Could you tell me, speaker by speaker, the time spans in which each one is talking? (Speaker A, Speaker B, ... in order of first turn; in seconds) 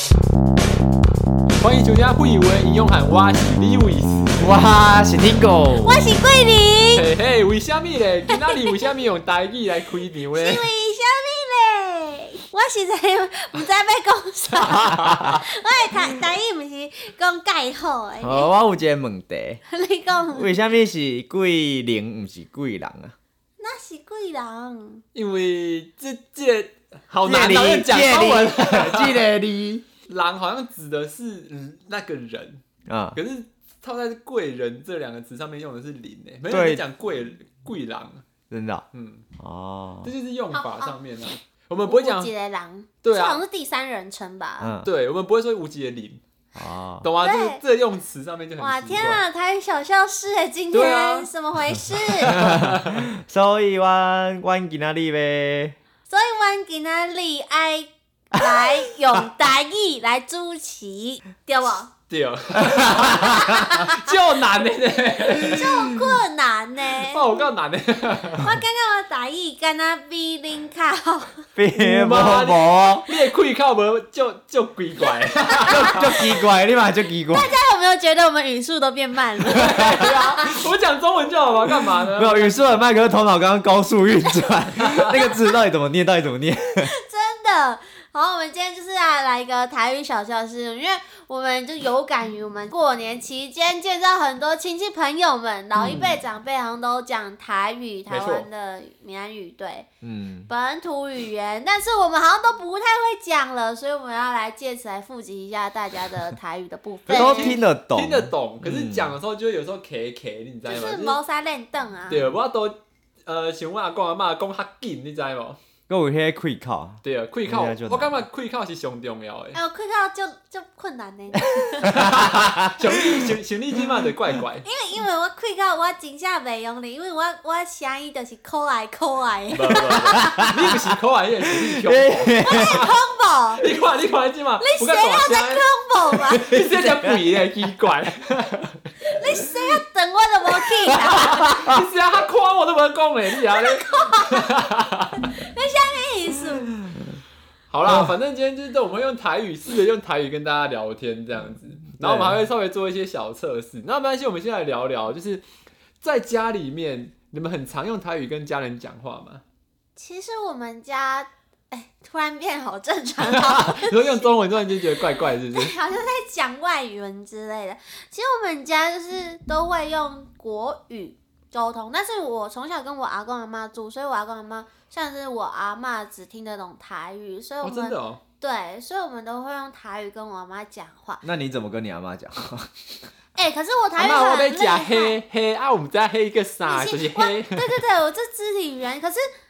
Speaker A: 1.6-4.4, 6.9-10.7, 14.7-15.4, 25.1-29.2, 30.1-32.6, 33.1-38.2, 38.9-39.3, 40.0-42.3, 43.0-43.4, 44.8-46.2, 47.0-49.2, 50.7-51.3, 52.2-53.0, 62.1-65.8, 67.1-68.5, 71.7-76.2, 79.5-82.6, 84.8-85.1, 98.1-98.5, 107.1-111.2, 112.1-115.6, 117.0-119.6, 121.8-124.7, 129.6-132.9, 133.6-135.7, 136.3-138.8, 141.2-145.3, 147.7-155.4, 156.0-159.4, 163.3-165.7, 177.6-178.2, 184.0-187.7
Speaker B: 4.4-6.0, 18.2-19.6, 20.3-23.1, 27.2-29.9, 32.9-33.2, 36.5-36.8, 38.5-38.9, 39.4-40.1, 44.6-44.9, 46.5-47.1, 52.3-55.8, 62.7-63.5, 71.5-73.1, 75.7-77.5, 82.2-86.9, 95.8-96.2, 100.0-100.5, 107.1-109.1, 115.9-118.2, 121.8-123.3, 130.0-130.7, 131.6-132.9, 136.5-137.2, 141.1-141.8, 146.8-147.2, 147.8-148.1, 152.0-152.4, 181.2-182.9
Speaker C: 5.8-7.1, 8.3-8.8, 10.3-18.5, 19.7-20.6, 23.6-25.0, 40.5-40.9, 41.9-44.8, 47.2-47.6, 48.6-52.4, 56.1-61.9, 63.2-64.1, 65.4-67.4, 68.4-71.5, 75.5-76.3, 77.3-80.5, 86.8-99.9, 100.5-107.6, 110.7-112.3, 119.5-122.2, 124.6-130.5, 132.4-133.7, 134.6-136.5, 139.1-141.5, 143.4-144.5, 145.2-146.7, 160.0-164.9, 165.5-181.2, 183.3-185.2, 186.7-189.3